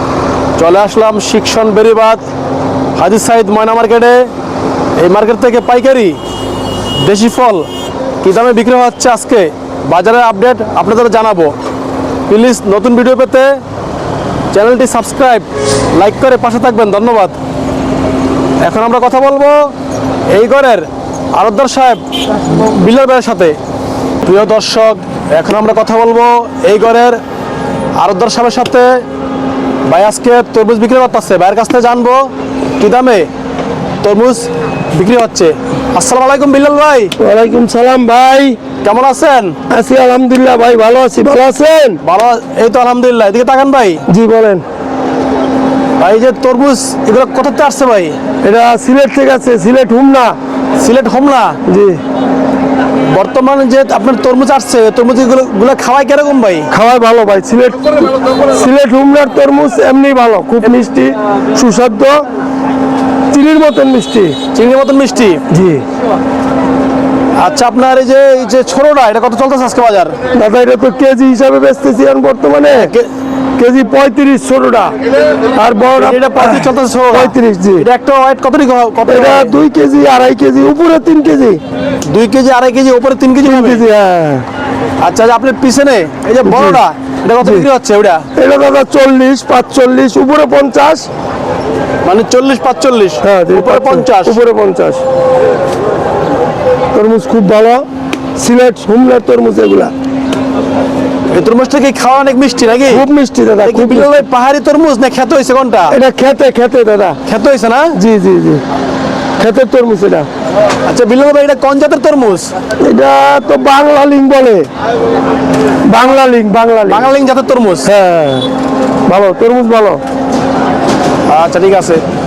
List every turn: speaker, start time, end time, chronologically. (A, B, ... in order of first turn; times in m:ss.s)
0:00.6-0:02.2 A
0:03.0-0:04.3 A
0:05.0-0:06.2 A
0:07.0-0:07.7 A
0:08.2-0:11.5 A
0:12.3-0:13.6 A
0:14.5-0:17.4 A
0:18.6-0:19.7 A
0:20.3-0:23.6 A
0:24.2-0:27.2 A
0:28.0-0:29.0 A
0:29.8-0:33.3 A
0:34.0-0:37.1 A
0:37.2-0:38.6 B
0:38.8-0:39.6 A
0:39.7-0:42.0 B
0:42.0-0:44.0 A
0:44.1-0:44.6 B
0:46.0-0:48.2 A
0:48.4-0:50.4 B
0:50.8-0:51.6 A
0:51.6-0:52.0 B
0:53.0-0:56.7 A
0:56.7-1:02.2 B
1:03.3-1:04.4 B
1:04.5-1:05.4 A
1:05.5-1:05.8 B
1:07.4-1:10.2 A
1:10.3-1:12.9 B
1:12.7-1:13.1 A
1:13.6-1:15.0 B
1:15.5-1:17.8 B
1:16.0-1:19.5 A
1:19.1-1:21.6 B
1:22.0-1:23.8 A
1:23.4-1:24.4 B
1:25.0-1:28.3 A
1:26.4-1:26.8 B
1:28.3-1:31.1 B
1:32.0-1:34.4 A
1:33.2-1:35.0 B
1:36.9-1:37.8 B
1:38.4-1:39.9 B
1:41.3-1:43.0 A
1:42.9-1:44.2 B
1:43.6-1:46.0 A
1:45.9-1:47.2 B
1:47.3-1:48.0 A
1:47.9-1:48.6 B
1:49.4-1:50.3 B
1:50.8-1:52.5 A
1:52.8-1:54.7 B
1:55.8-1:57.1 B
1:56.9-1:57.9 A
1:57.8-1:58.5 B
1:59.1-2:00.0 B
2:01.3-2:02.0 A